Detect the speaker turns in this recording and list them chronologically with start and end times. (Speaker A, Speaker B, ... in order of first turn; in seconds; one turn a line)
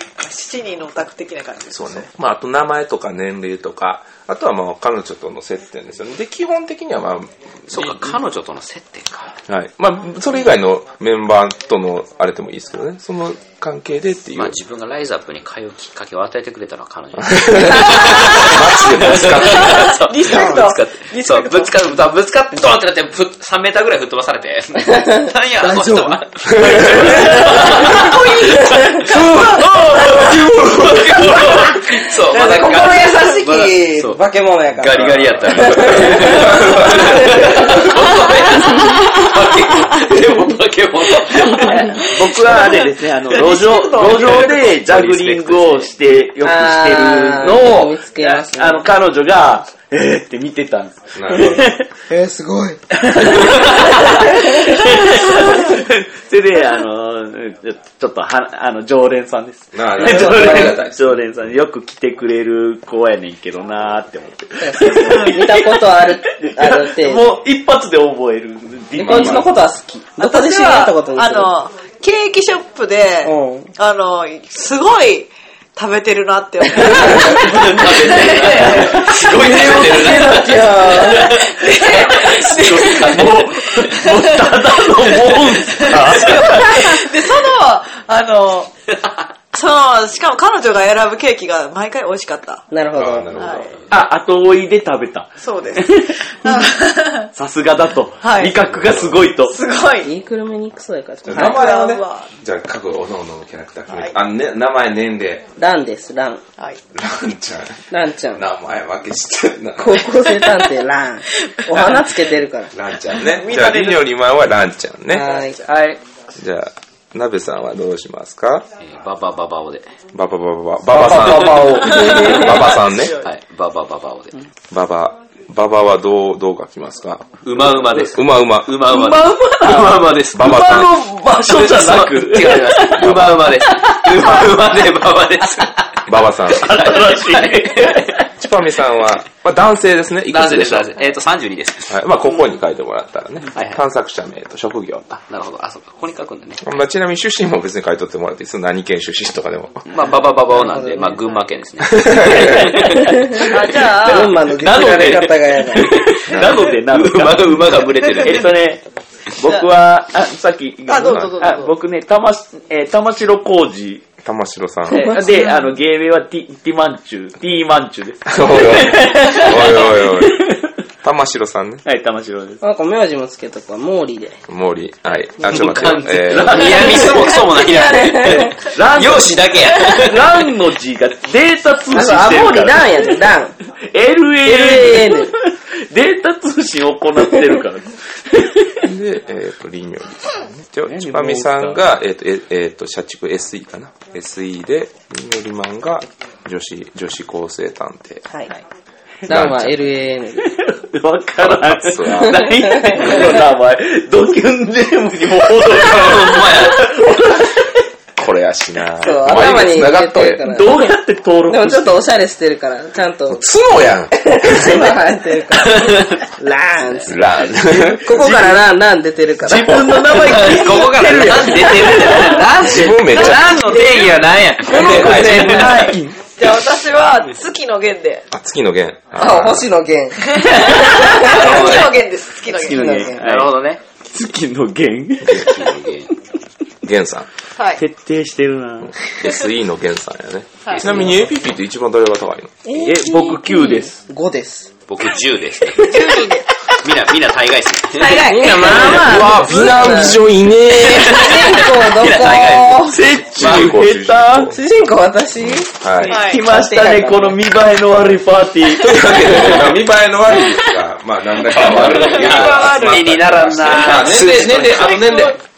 Speaker A: 0.2-2.0
Speaker B: 1.7-8.2
Speaker C: 7.7-9.4
Speaker B: 9.5-14.6
Speaker C: 14.3-45.9
Speaker B: 17.2-20.4
Speaker A: 18.0-18.4
Speaker A: 19.4-21.7
Speaker D: 24.9-29.4
Speaker B: 26.5-27.4
Speaker B: 29.0-31.2
Speaker D: 31.6-37.6
Speaker B: 34.9-37.6
Speaker E: 41.4-51.9
Speaker D: 46.4-48.9
Speaker B: 51.1-51.7
Speaker D: 52.1-52.8
Speaker E: 52.9-69.5
Speaker D: 53.4-53.7
Speaker B: 59.7-61.5
Speaker D: 60.0-60.8
Speaker D: 64.6-67.3
Speaker A: 65.0-65.4
Speaker B: 68.9-69.6
Speaker D: 69.0-71.5
Speaker A: 70.2-80.2
Speaker D: 73.2-73.7
Speaker E: 76.7-81.3
Speaker C: 77.2-83.3
Speaker D: 79.5-81.4
Speaker A: 81.0-88.7
Speaker E: 81.9-87.0
Speaker C: 86.0-86.4
Speaker A: 89.5-92.7
Speaker D: 92.7-93.3
Speaker B: 92.9-93.7
Speaker A: 93.3-93.7
Speaker E: 93.9-96.1
Speaker A: 95.4-97.3
Speaker E: 97.3-99.6
Speaker A: 98.2-98.5
Speaker B: 98.7-99.2
Speaker A: 99.4-100.1
Speaker D: 100.0-101.6
Speaker B: 101.2-105.5
Speaker A: 101.3-102.3
Speaker A: 103.9-104.1
Speaker D: 105.6-106.4
Speaker B: 106.9-110.1
Speaker D: 107.9-108.4
Speaker D: 109.8-112.7
Speaker A: 111.3-112.1
Speaker B: 112.7-115.3
Speaker A: 113.1-114.1
Speaker D: 115.1-115.6
Speaker A: 115.2-115.7
Speaker E: 115.6-116.0
Speaker B: 116.3-118.7
Speaker C: 118.8-119.9
Speaker B: 120.1-123.2
Speaker E: 120.9-122.7
Speaker D: 121.0-122.7
Speaker A: 122.7-123.2
Speaker C: 123.2-124.3
Speaker B: 124.7-127.3
Speaker C: 127.4-130.8
Speaker B: 128.0-128.8
Speaker E: 128.8-134.5
Speaker B: 130.3-131.0
Speaker C: 131.4-137.9
Speaker B: 133.0-133.5
Speaker B: 136.1-136.9
Speaker E: 136.5-138.3
Speaker B: 138.4-140.9
Speaker C: 140.3-142.0
Speaker B: 141.9-145.1
Speaker C: 143.5-143.8
Speaker C: 145.1-146.6
Speaker B: 146.6-149.9
Speaker C: 149.9-153.1
Speaker D: 150.5-151.2
Speaker B: 151.9-152.8
Speaker E: 152.1-158.8
Speaker A: 153.5-154.3
Speaker D: 154.0-155.9
Speaker C: 154.6-156.1
Speaker A: 156.3-156.8
Speaker C: 156.8-158.6
Speaker A: 158.1-158.4
Speaker E: 159.3-164.0
Speaker A: 159.4-159.7
Speaker A: 160.9-161.7
Speaker B: 161.1-161.3
Speaker B: 164.2-165.2
Speaker E: 164.9-170.7
Speaker D: 164.9-165.6
Speaker B: 168.3-170.4
Speaker B: 171.0-171.8
Speaker E: 171.8-172.6
Speaker D: 172.6-174.4
Speaker B: 174.5-177.0
Speaker C: 175.4-180.3
Speaker E: 175.5-177.3
Speaker D: 176.8-178.6
Speaker E: 178.3-183.2
Speaker D: 181.9-183.5
Speaker E: 183.8-188.8
Speaker D: 184.4-185.3
Speaker B: 188.8-198.2
Speaker E: 190.9-191.8
Speaker D: 199.2-200.5
Speaker B: 199.3-199.9
Speaker E: 200.4-207.8
Speaker B: 201.4-203.3
Speaker D: 202.2-203.4
Speaker C: 205.7-206.9
Speaker B: 208.2-210.5
Speaker D: 209.0-213.5
Speaker E: 210.4-212.1
Speaker B: 213.3-215.0
Speaker D: 214.1-220.2
Speaker B: 217.0-218.1
Speaker E: 217.7-218.6
Speaker E: 219.4-222.8
Speaker C: 220.1-225.0
Speaker A: 222.4-222.6
Speaker B: 222.6-223.6
Speaker A: 223.2-224.3
Speaker E: 224.7-226.1
Speaker B: 224.7-225.9
Speaker D: 224.8-225.6
Speaker A: 224.8-228.3
Speaker C: 225.6-225.8
Speaker B: 228.3-229.6
Speaker D: 229.2-231.7
Speaker A: 230.2-233.1
Speaker C: 231.2-232.0
Speaker E: 232.5-235.8
Speaker D: 232.7-233.2
Speaker C: 233.2-233.8
Speaker C: 235.2-236.1
Speaker B: 236.8-237.3
Speaker A: 237.6-237.8
Speaker E: 237.8-238.9
Speaker B: 238.8-242.5
Speaker A: 240.6-241.1
Speaker C: 240.7-241.2
Speaker D: 242.6-244.7
Speaker E: 242.7-244.0
Speaker C: 244.9-246.2
Speaker A: 245.8-246.5
Speaker C: 246.8-249.6
Speaker A: 247.9-249.7
Speaker D: 248.3-250.3
Speaker B: 248.9-251.3
Speaker C: 250.8-253.7
Speaker D: 250.9-253.0
Speaker E: 251.8-254.5
Speaker B: 253.3-254.6
Speaker D: 254.5-255.7
Speaker B: 255.4-256.2
Speaker E: 256.0-259.7
Speaker A: 256.0-256.4
Speaker D: 256.2-257.4
Speaker B: 258.8-265.4
Speaker C: 261.5-265.2
Speaker E: 261.6-262.7
Speaker A: 261.6-263.0
Speaker A: 263.8-265.4